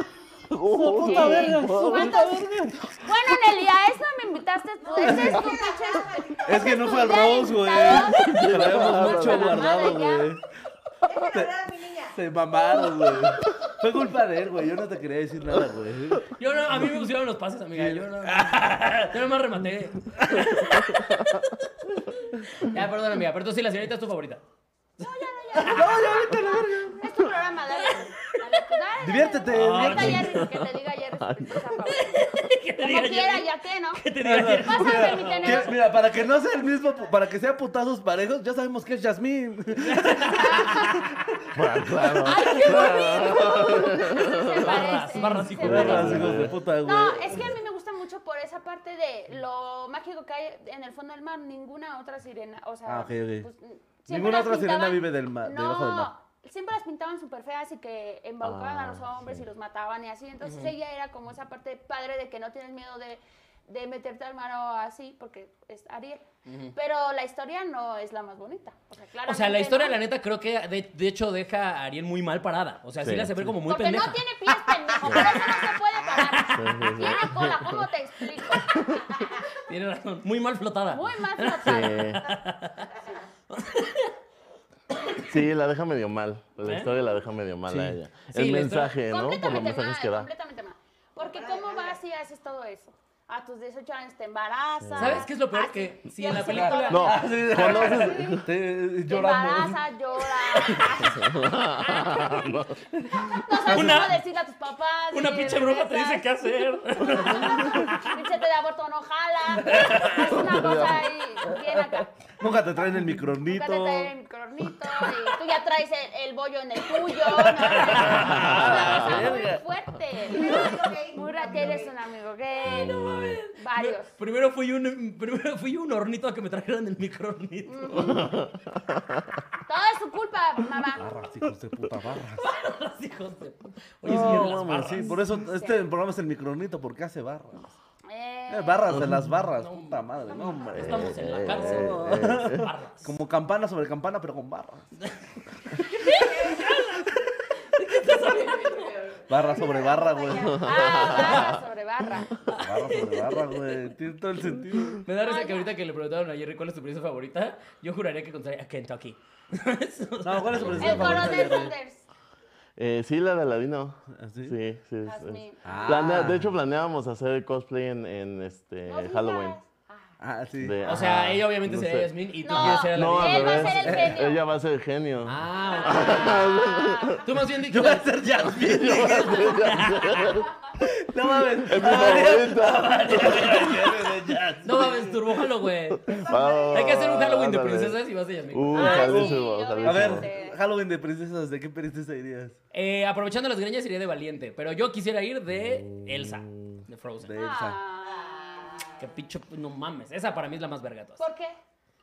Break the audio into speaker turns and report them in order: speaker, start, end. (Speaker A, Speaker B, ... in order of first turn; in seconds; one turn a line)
Speaker A: 0.5-2.3
Speaker B: 0.7-3.0
Speaker C: 0.8-2.5
Speaker C: 3.0-10.3
Speaker D: 4.8-7.2
Speaker B: 5.0-5.4
Speaker B: 6.5-10.4
Speaker A: 7.9-9.8
Speaker D: 11.0-12.2
Speaker B: 12.2-16.3
Speaker E: 16.4-21.4
Speaker B: 17.8-18.9
Speaker B: 20.3-20.6
Speaker A: 20.6-21.4
Speaker E: 22.5-24.4
Speaker C: 25.0-32.2
Speaker E: 25.5-25.9
Speaker B: 25.6-27.0
Speaker E: 27.8-28.3
Speaker B: 29.0-30.3
Speaker E: 29.5-30.4
Speaker A: 29.9-31.6
Speaker E: 31.9-35.8
Speaker C: 32.8-35.8
Speaker B: 34.2-41.0
Speaker E: 39.9-40.8
Speaker C: 40.4-40.9
Speaker A: 41.5-44.9
Speaker C: 42.2-70.0
Speaker E: 42.4-43.3
Speaker E: 44.4-46.4
Speaker A: 45.4-46.6
Speaker B: 45.6-47.5
Speaker B: 52.9-53.5
Speaker B: 54.1-56.1
Speaker A: 58.4-59.5
Speaker E: 60.4-60.7
Speaker E: 66.5-66.7
Speaker E: 69.3-76.7
Speaker A: 73.0-73.5
Speaker C: 73.7-79.4
Speaker A: 75.0-75.3
Speaker A: 76.5-77.8
Speaker E: 79.5-82.9
Speaker C: 80.9-82.1
Speaker A: 81.6-82.3
Speaker E: 83.5-84.1
Speaker A: 85.3-90.3
Speaker E: 86.6-86.9
Speaker E: 87.7-89.0
Speaker C: 89.0-98.4
Speaker D: 91.2-92.0
Speaker A: 94.8-95.3
Speaker E: 95.0-97.2
Speaker B: 96.3-99.8
Speaker A: 96.9-98.5
Speaker C: 99.1-112.1
Speaker A: 101.0-103.7
Speaker E: 103.7-104.2
Speaker E: 105.1-108.1
Speaker A: 107.1-107.8
Speaker E: 109.7-110.3
Speaker A: 110.0-111.1
Speaker B: 112.4-114.1
Speaker C: 113.4-124.1
Speaker E: 117.2-119.5
Speaker A: 118.0-119.5
Speaker B: 118.4-119.6
Speaker D: 120.2-122.0
Speaker E: 122.6-128.2
Speaker A: 122.7-123.4
Speaker C: 127.7-128.4
Speaker A: 128.0-129.4
Speaker C: 129.7-131.2
Speaker B: 131.0-132.5
Speaker E: 132.4-135.2
Speaker A: 134.0-135.2
Speaker B: 134.1-137.8
Speaker C: 135.2-135.8
Speaker C: 138.1-138.9
Speaker B: 138.5-145.0
Speaker E: 139.6-143.1
Speaker A: 140.7-142.7
Speaker E: 145.7-149.0
Speaker D: 146.2-146.6
Speaker D: 148.6-150.7
Speaker B: 149.3-150.7
Speaker A: 150.4-151.5
Speaker C: 150.5-152.3
Speaker E: 151.1-151.5
Speaker E: 152.4-153.8
Speaker B: 152.6-155.0
Speaker E: 155.0-161.7
Speaker C: 155.2-155.7
Speaker B: 160.2-161.7
Speaker A: 160.5-161.4
Speaker C: 160.7-162.0
Speaker A: 162.8-169.6
Speaker B: 164.2-164.6
Speaker C: 165.1-166.1
Speaker B: 165.7-166.5
Speaker C: 168.9-170.1
Speaker B: 170.2-170.8
Speaker A: 170.6-177.3
Speaker E: 170.8-174.0
Speaker C: 172.4-174.4
Speaker B: 173.8-174.2
Speaker E: 175.2-176.5
Speaker C: 175.6-177.3
Speaker E: 177.2-178.2
Speaker B: 177.7-179.8
Speaker A: 178.4-180.5
Speaker E: 178.8-180.4
Speaker B: 180.8-185.2
Speaker A: 181.6-184.1
Speaker E: 184.6-186.0
Speaker A: 185.9-188.0
Speaker C: 186.2-186.8
Speaker E: 186.7-189.2
Speaker A: 188.5-190.3
Speaker C: 188.7-190.6
Speaker B: 188.8-192.6
Speaker E: 192.7-197.3
Speaker A: 195.5-196.8
Speaker B: 197.2-197.8
Speaker C: 197.3-198.7
Speaker D: 198.1-199.0
Speaker E: 199.0-201.2
Speaker C: 201.2-201.6